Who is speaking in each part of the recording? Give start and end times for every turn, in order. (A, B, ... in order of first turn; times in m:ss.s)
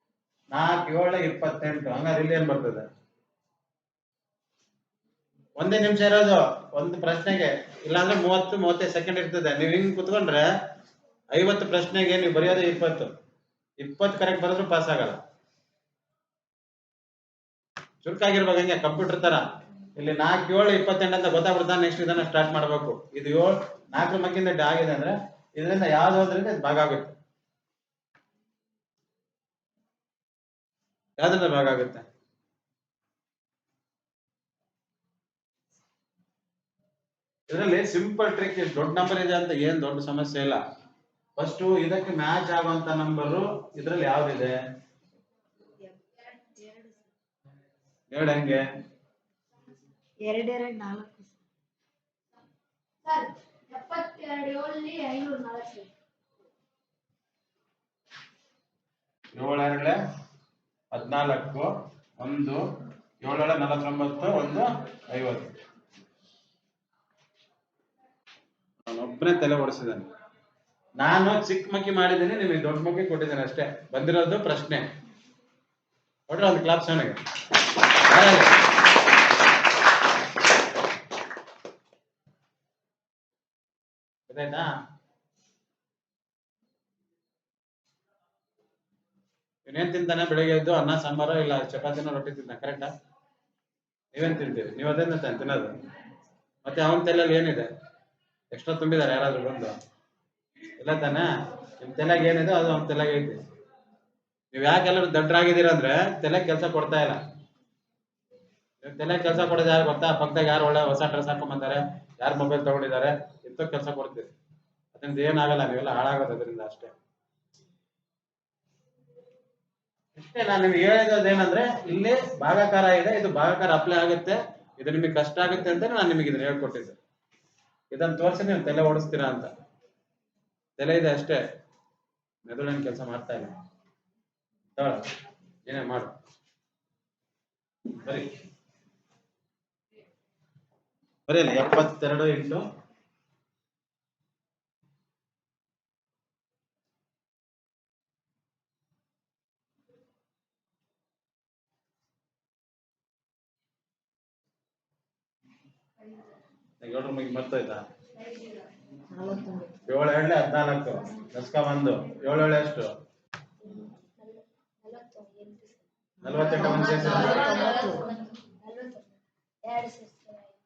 0:00.5-0:02.8 A
0:05.6-0:10.5 A
0:11.3-0:13.1 A
0:13.8-0:15.2 A
0:18.0-0:19.4 A
0:20.0-0:27.1 A
0:31.2-0:32.0 A
0:37.5-0:40.6 A
0:41.4-0:44.5 A
0:46.3-0:47.0 B
0:48.1-0:48.6 A
0:50.2-0:51.4 B
0:53.0-0:55.9 C
0:59.3-1:00.0 A
1:00.9-1:02.6 A
1:03.2-1:05.5 A
1:08.8-1:10.1 A
1:11.0-1:14.8 A
1:16.3-1:17.2 A
1:18.0-1:18.6 A
1:24.3-1:24.7 A
1:29.6-1:32.9 A
1:34.1-1:35.7 A
1:36.6-1:37.7 A
1:38.5-1:39.7 A
1:40.8-1:43.4 A
1:44.5-1:47.2 A
1:48.8-1:54.3 A
1:54.9-1:56.9 A
2:00.2-2:07.0 A
2:07.9-2:09.5 A
2:10.8-2:11.4 A
2:12.4-2:13.5 A
2:14.8-2:15.0 A
2:15.6-2:16.1 A
2:18.0-2:18.3 A
2:21.3-2:22.6 A
2:36.8-2:37.8 A
2:39.1-2:39.7 B
2:39.8-2:42.9 A
2:43.6-2:45.8 C
2:46.2-2:47.7 A
2:46.2-2:48.1 B
2:46.7-2:49.1 C
2:49.6-2:50.5 C